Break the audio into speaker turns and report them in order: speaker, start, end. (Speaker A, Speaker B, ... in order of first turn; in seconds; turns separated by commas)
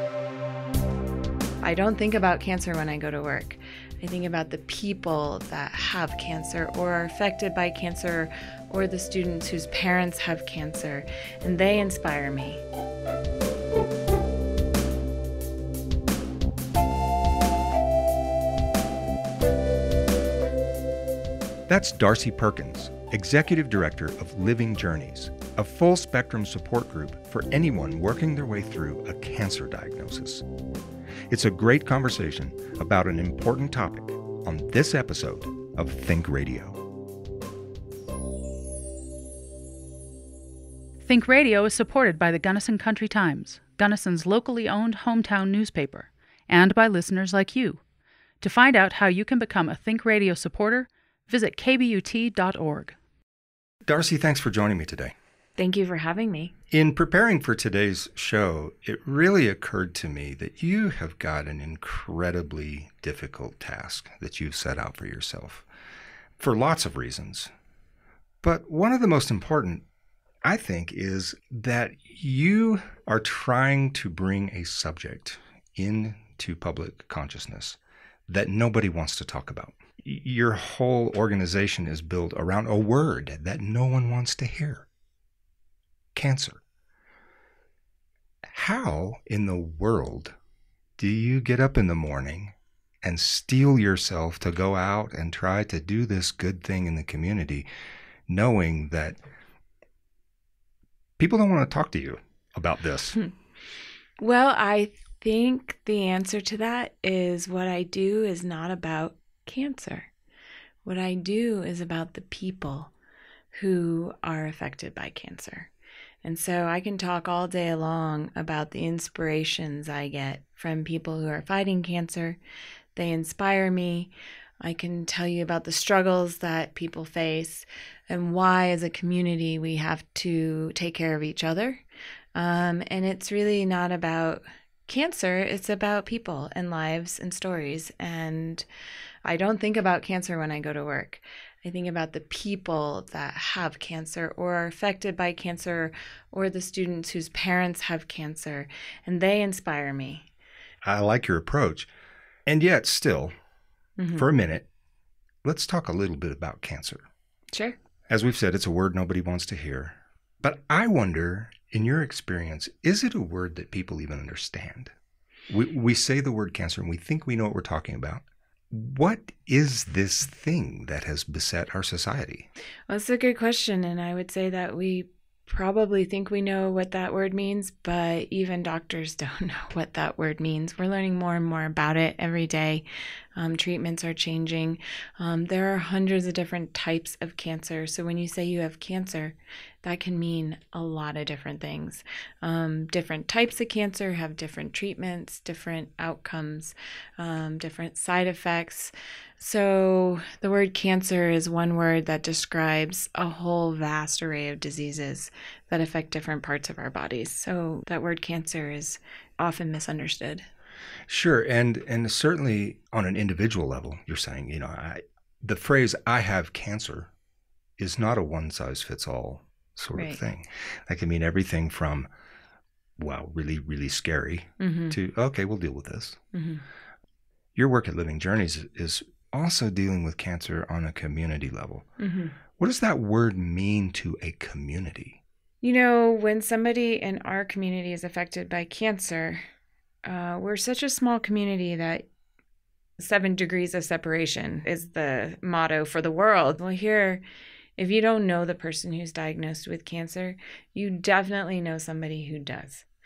Speaker A: 1.6-12.6, Speaker B: 21.7-30.4, Speaker B: 31.3-36.8, Speaker C: 41.0-47.8, Speaker C: 48.4-53.0, Speaker B: 53.9-55.1, Speaker A: 55.6-56.5, Speaker B: 56.7-65.7, Speaker B: 66.4-67.5, Speaker B: 68.4-69.8, Speaker B: 70.5-84.9, Speaker B: 86.2-86.6, Speaker B: 88.5-90.3, Speaker B: 91.0-97.7, Speaker B: 98.3-99.2, Speaker B: 101.2-103.2, Speaker A: 104.2-110.1, Speaker A: 110.8-112.9, Speaker A: 113.5-115.7, Speaker A: 116.2-122.4, Speaker A: 123.0-131.8, Speaker A: 132.3-138.7, Speaker A: 139.2-150.3, Speaker B: 150.8-151.9, Speaker B: 152.5-153.3, Speaker A: 154.0-154.3, Speaker B: 154.2-154.7, Speaker B: 155.4-157.0, Speaker A: 157.5-157.8, Speaker B: 158.1-164.9, Speaker B: 165.5-172.5, Speaker A: 172.9-182.8, Speaker A: 183.3-210.5, Speaker B: 211.1-217.1, Speaker B: 217.8-222.1, Speaker A: 219.9-220.2, Speaker B: 223.0-226.2, Speaker A: 224.6-225.0, Speaker A: 226.3-226.6, Speaker B: 227.6-231.9, Speaker A: 232.0-232.4, Speaker B: 232.6-235.2, Speaker A: 235.6-239.4, Speaker A: 240.1-242.1, Speaker A: 243.0-247.2, Speaker A: 247.8-252.9